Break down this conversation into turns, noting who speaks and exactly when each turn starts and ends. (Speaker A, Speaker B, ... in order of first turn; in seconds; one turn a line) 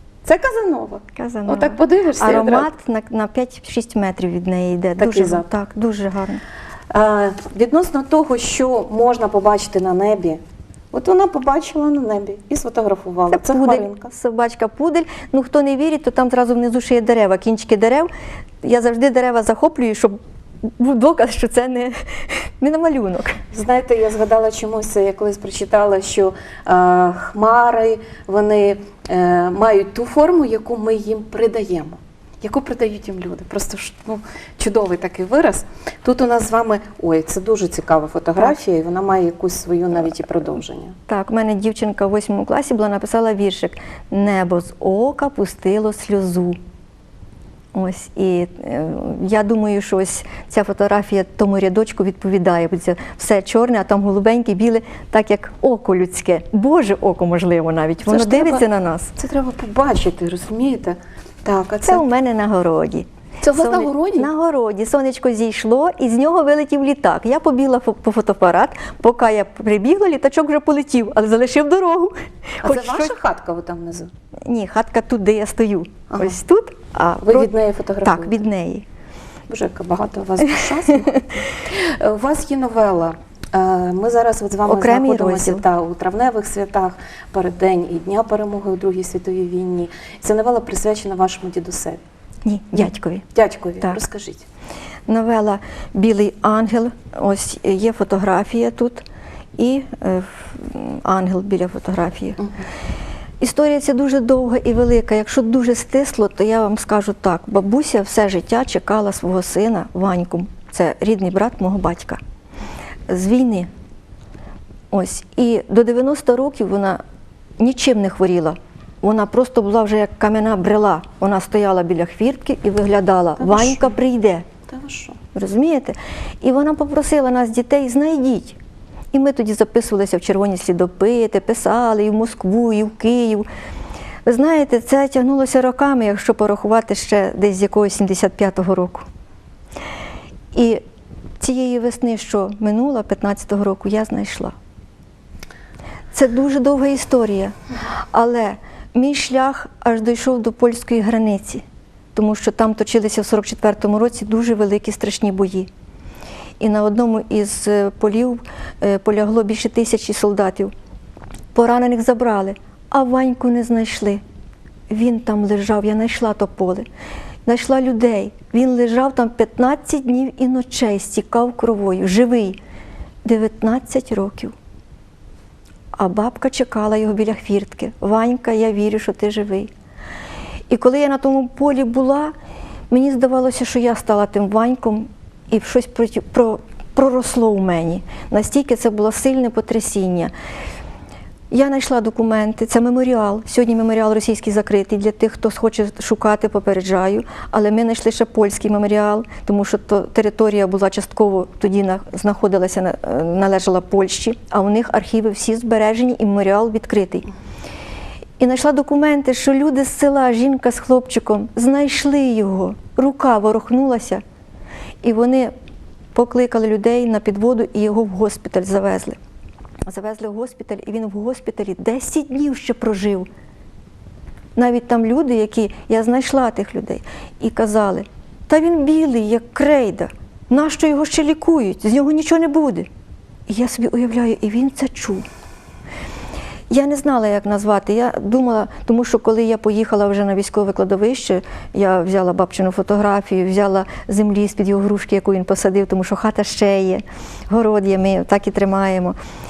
Speaker A: 0.2-2.7
Speaker B: 1.1-6.4
Speaker A: 5.0-5.5
Speaker A: 6.9-10.4
Speaker A: 10.9-14.1
Speaker B: 13.3-18.1
Speaker B: 18.6-20.2
Speaker B: 20.8-21.9
Speaker B: 22.6-23.4
Speaker A: 23.5-41.0
Speaker B: 41.1-46.6
Speaker B: 47.7-59.1
Speaker A: 58.0-58.6
Speaker A: 59.2-62.0
Speaker B: 61.9-73.1
Speaker A: 63.4-64.3
Speaker A: 72.6-74.1
Speaker B: 74.5-77.5
Speaker A: 76.1-76.4
Speaker A: 77.2-78.4
Speaker B: 78.0-78.8
Speaker A: 79.5-92.0
Speaker B: 84.7-85.6
Speaker B: 92.4-93.2
Speaker A: 92.8-94.4
Speaker B: 95.1-99.0
Speaker B: 99.6-102.4
Speaker B: 103.4-112.2
Speaker B: 113.1-113.7
Speaker B: 114.9-117.0
Speaker B: 117.6-124.5
Speaker A: 123.4-124.0
Speaker A: 124.7-125.2
Speaker B: 125.3-128.6
Speaker B: 129.1-133.4
Speaker B: 134.2-139.0
Speaker B: 140.5-140.8
Speaker B: 141.4-144.5
Speaker B: 146.1-147.5
Speaker B: 148.1-151.6
Speaker B: 152.1-155.7
Speaker B: 156.6-160.7
Speaker B: 161.5-164.2
Speaker B: 164.9-166.9
Speaker B: 167.4-172.6
Speaker B: 173.2-174.5
Speaker B: 175.9-179.7
Speaker B: 180.7-182.3
Speaker B: 182.9-190.3
Speaker B: 191.5-207.3
Speaker B: 208.4-214.2
Speaker B: 215.0-215.5
Speaker B: 216.1-219.2
Speaker B: 219.9-223.3
Speaker B: 224.6-232.9
Speaker B: 233.5-235.2
Speaker B: 236.7-249.2